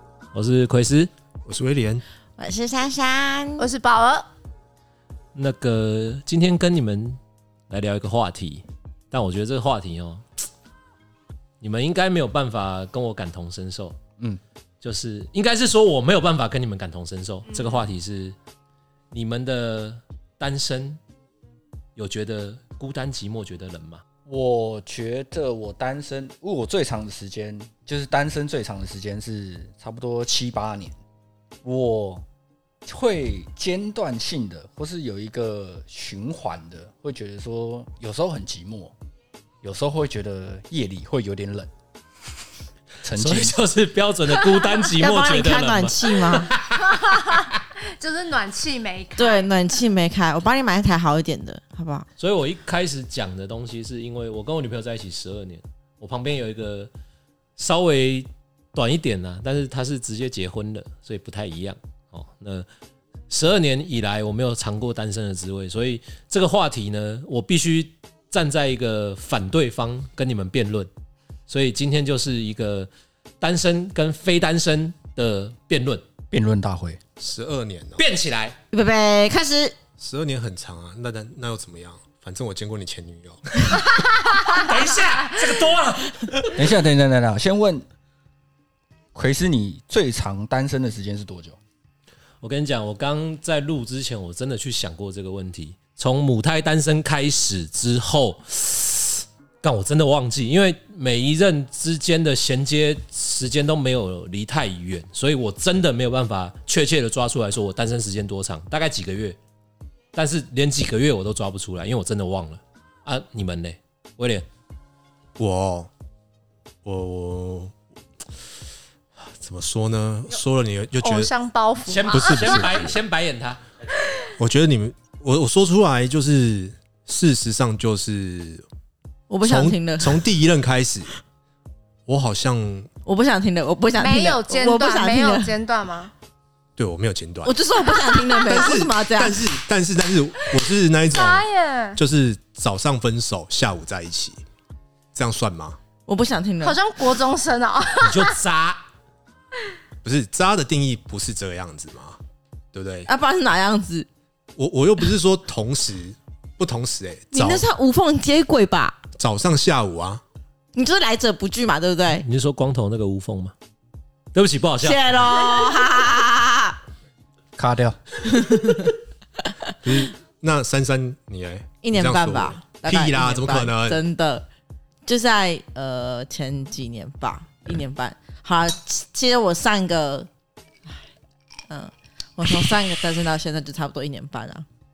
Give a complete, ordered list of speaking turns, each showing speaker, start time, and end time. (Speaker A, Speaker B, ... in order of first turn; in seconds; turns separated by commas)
Speaker A: 0.3-1.1, Speaker B: 1.5-2.0, Speaker C: 2.4-3.7, Speaker D: 3.6-4.3, Speaker A: 5.3-7.2, Speaker A: 7.7-10.3, Speaker A: 11.6-14.0, Speaker A: 14.8-18.4, Speaker D: 17.5-17.8, Speaker A: 19.1-21.0, Speaker A: 22.0-24.0, Speaker E: 24.3-31.0, Speaker E: 31.6-32.2, Speaker E: 32.9-38.9, Speaker E: 39.6-41.7, Speaker E: 43.0-43.6, Speaker A: 43.1-47.4, Speaker C: 44.9-46.5, Speaker D: 46.9-49.7, Speaker C: 49.2-52.1, Speaker A: 52.2-56.9, Speaker A: 57.6-62.7, Speaker A: 63.3-70.9, Speaker A: 71.5-72.9, Speaker A: 73.4-76.0, Speaker E: 76.3-77.0, Speaker B: 77.2-78.0, Speaker A: 78.0-78.6, Speaker C: 78.7-79.8, Speaker B: 80.0-83.8, Speaker A: 84.5-86.6, Speaker E: 86.5-87.8, Speaker E: 89.1-91.6, Speaker A: 92.4-109.4, Speaker A: 110.1-114.5, Speaker B: 115.4-115.9, Speaker B: 116.8-117.7, Speaker B: 119.2-121.3, Speaker D: 121.0-122.9, Speaker A: 121.9-123.6, Speaker B: 122.1-123.0, Speaker B: 124.4-128.6, Speaker C: 129.3-130.3, Speaker B: 129.4-131.1, Speaker B: 132.1-132.9, Speaker C: 133.1-135.5, Speaker D: 134.0-136.1, Speaker B: 136.8-137.6, Speaker C: 137.4-139.6, Speaker B: 138.3-144.4, Speaker D: 141.1-142.0, Speaker B: 145.1-145.8, Speaker C: 146.1-146.8, Speaker D: 146.6-148.4, Speaker A: 148.0-148.8, Speaker B: 150.0-152.2, Speaker B: 152.7-153.1, Speaker C: 153.1-154.1, Speaker B: 154.6-157.7, Speaker C: 157.3-159.0, Speaker B: 159.2-160.2, Speaker C: 160.7-162.3, Speaker A: 162.2-163.5, Speaker A: 164.3-165.3, Speaker C: 164.8-166.8, Speaker E: 167.6-168.0, Speaker C: 168.3-169.8, Speaker B: 169.8-174.0, Speaker C: 171.8-174.4, Speaker C: 175.1-180.3, Speaker C: 181.7-184.7